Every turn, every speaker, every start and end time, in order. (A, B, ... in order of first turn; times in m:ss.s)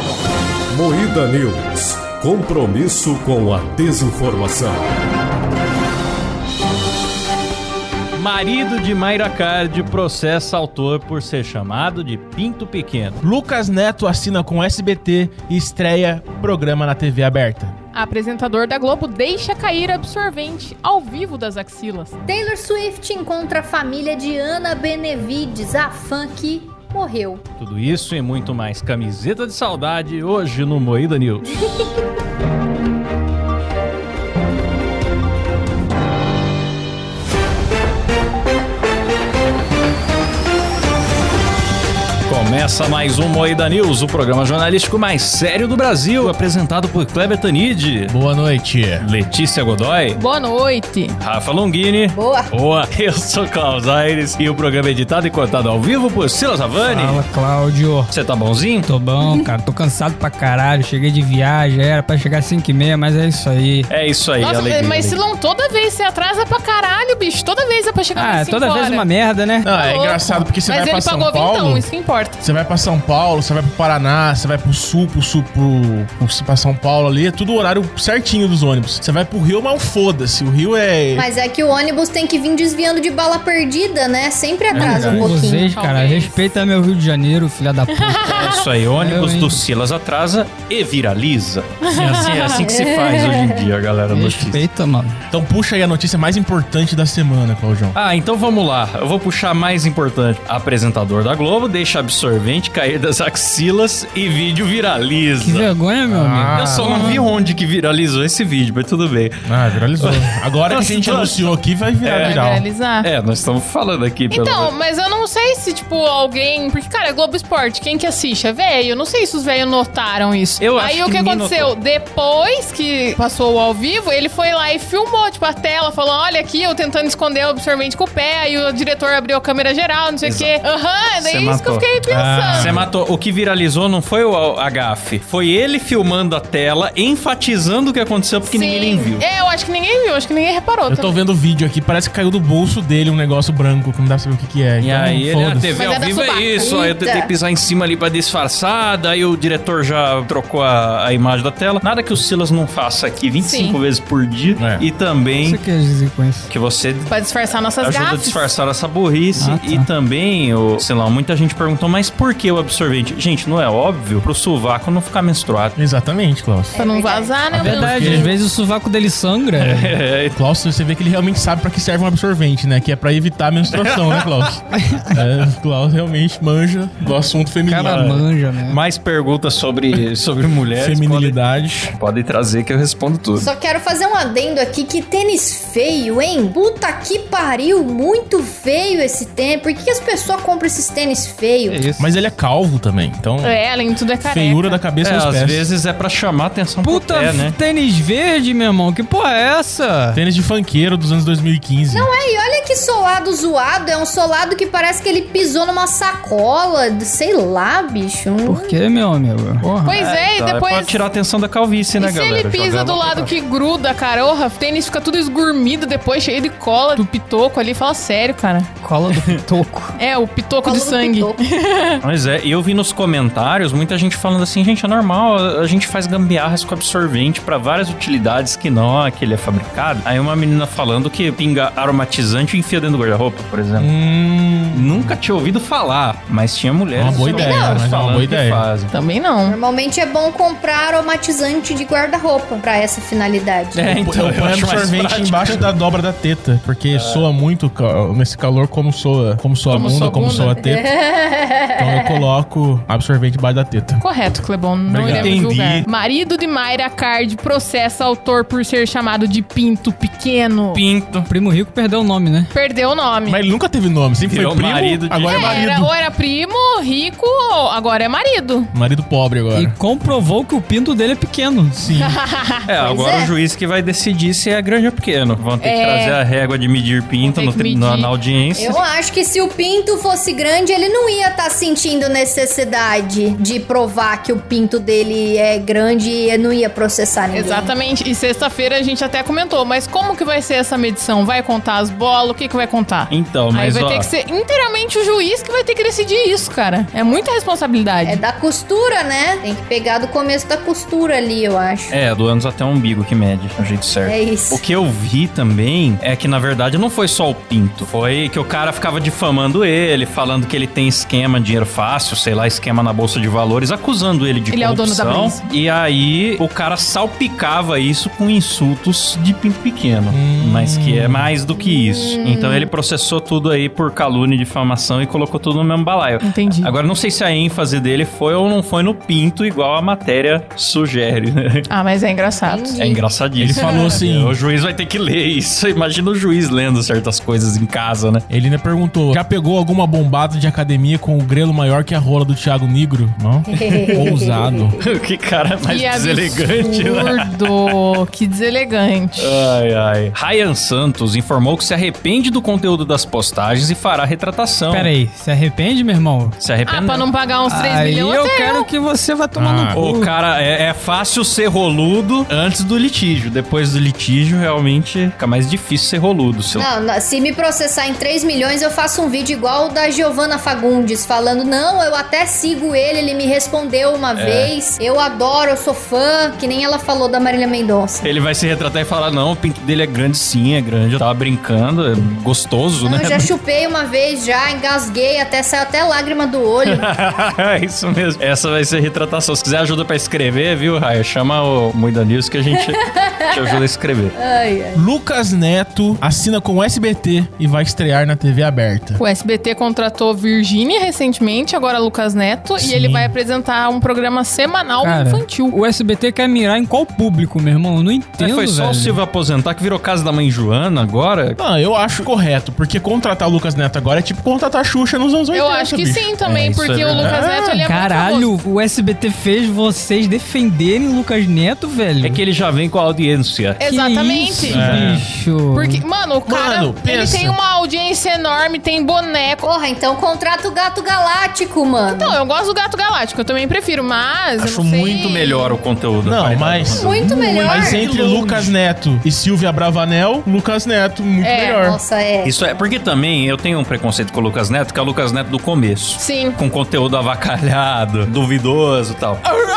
0:00.7-0:04.8 A
0:08.2-0:13.2 B
0:13.2-0:17.8 C
0:17.9-0:22.1 D
0:22.3-0:27.4 E
0:27.6-0:31.9 B
0:42.3-0:48.2 B
0:48.1-0:49.0 C
0:49.0-0:50.2 B
0:50.2-0:51.2 D
0:51.2-0:57.2 B
0:52.1-0:52.5 E
0:56.8-0:58.1 F
0:58.1-0:58.9 B
0:58.8-1:03.9 F
1:03.9-1:05.2 B
1:04.4-1:09.1 D
1:08.2-1:09.7 F
1:09.6-1:11.8 C
1:09.7-1:12.4 D
1:12.4-1:21.3 C
1:21.2-1:25.7 E
1:24.7-1:29.6 F
1:25.0-1:26.6 D
1:27.9-1:28.7 D
1:28.3-1:34.6 B
1:31.8-1:32.6 D
1:32.6-1:33.7 E
1:34.1-1:35.2 F
1:35.3-1:37.9 C
1:37.9-1:45.7 B
1:45.4-1:47.2 F
1:46.1-1:47.2 C
1:46.5-1:54.7 B
1:49.5-1:52.6 C
1:52.1-1:53.1 D
1:54.3-2:12.8 D
2:00.6-2:01.7 B
2:10.2-2:10.6 B
2:11.2-2:11.9 B
2:12.1-2:12.9 C
2:12.5-2:19.2 B
2:18.4-2:21.2 D
2:20.9-2:25.8 C
2:24.8-2:35.6 B
2:25.8-2:26.8 D
2:26.6-2:27.3 E
2:33.4-2:33.8 D
2:34.6-2:34.8 C
2:35.4-2:36.5 F
2:36.5-2:37.1 B
2:37.1-2:38.5 D
2:37.8-2:45.8 B
2:39.4-2:39.9 F
2:45.8-2:46.8 C
2:46.7-2:47.5 E
2:46.8-2:48.3 D
2:47.5-2:48.3 C
2:47.5-2:50.0 F
2:49.6-2:50.4 B
2:50.3-2:58.2 C
2:53.8-2:54.5 B
2:54.7-2:55.2 F
2:57.7-2:58.8 F
2:57.8-3:03.5 B
3:00.7-3:01.9 C
3:03.4-3:11.8 E
3:11.7-3:12.2 B
3:12.0-3:13.6 C
3:13.4-3:14.8 D
3:14.2-3:15.7 C
3:15.0-3:17.6 B
3:16.8-3:20.2 F
3:20.1-3:22.1 C
3:21.9-3:28.8 E
3:28.4-3:30.0 F
3:29.8-3:31.0 D
3:30.0-3:33.3 B
3:32.0-3:38.7 D
3:38.8-3:40.0 F
3:40.0-3:42.0 D
3:40.6-3:41.4 E
3:42.0-3:53.9 B
3:53.8-3:55.1 C
3:54.7-3:58.9 B
3:57.0-3:58.6 C
3:57.0-3:57.8 E
3:58.9-3:59.6 D
3:59.5-4:03.9 E
4:03.7-4:05.7 B
4:03.8-4:10.9 C
4:06.9-4:07.3 B
4:09.7-4:10.3 B
4:09.7-4:10.6 D
4:10.6-4:12.2 E
4:11.8-4:14.0 C
4:14.0-4:20.8 D
4:14.9-4:15.3 C
4:15.0-4:15.9 B
4:20.7-4:21.3 B
4:21.3-4:22.5 F
4:22.5-4:23.4 D
4:23.3-4:25.9 C
4:24.2-4:25.6 B
4:25.3-4:28.7 D
4:28.7-4:29.8 C
4:29.5-4:31.9 F
4:31.8-4:32.2 C
4:32.0-4:32.6 D
4:32.6-4:38.8 B
4:32.8-4:33.3 E
4:35.6-4:36.2 D
4:37.2-4:38.1 D
4:38.6-4:47.7 E
4:47.3-4:58.2 D
4:53.1-4:54.1 B
4:58.0-5:02.0 E
5:01.9-5:31.7 B
5:04.0-5:04.6 E
5:14.5-5:15.4 D
5:20.1-5:21.3 C
5:21.6-5:22.7 E
5:26.2-5:26.7 D
5:31.7-5:32.8 D
5:32.4-5:33.0 E
5:32.8-5:38.2 B
5:33.4-5:34.4 C
5:38.3-5:44.8 C
5:43.5-5:44.8 E
5:43.6-5:44.1 B
5:44.8-5:47.7 B
5:45.7-5:49.6 D
5:49.2-5:54.9 B
5:54.7-5:56.3 F
5:56.4-5:57.1 B
5:56.6-5:58.7 D
5:57.5-6:00.1 F
5:59.4-5:59.8 C
5:59.7-6:06.7 B
6:06.6-6:18.1 E
6:14.1-6:14.5 B
6:18.0-6:23.3 B
6:22.8-6:26.9 E
6:26.6-6:34.2 B
6:32.6-6:33.6 E
6:34.2-6:34.8 E
6:34.8-6:39.0 C
6:39.0-6:45.6 D
6:42.6-6:43.1 C
6:44.8-6:49.0 F
6:48.2-6:51.4 B
6:51.4-6:56.1 C
6:55.3-6:58.3 D
6:56.2-6:57.2 B
6:56.9-6:57.6 C
6:57.6-7:02.2 F
7:02.0-7:03.6 B
7:03.6-7:04.9 D
7:03.6-7:05.8 F
7:04.4-7:05.0 C
7:05.5-7:09.5 D
7:06.2-7:07.4 C
7:09.4-7:12.2 E
7:11.9-7:15.6 D
7:14.4-7:18.5 B
7:16.0-7:21.8 C
7:16.7-7:18.2 E
7:21.2-7:21.6 D
7:21.6-7:22.3 E
7:22.2-7:29.2 B
7:26.0-7:26.4 D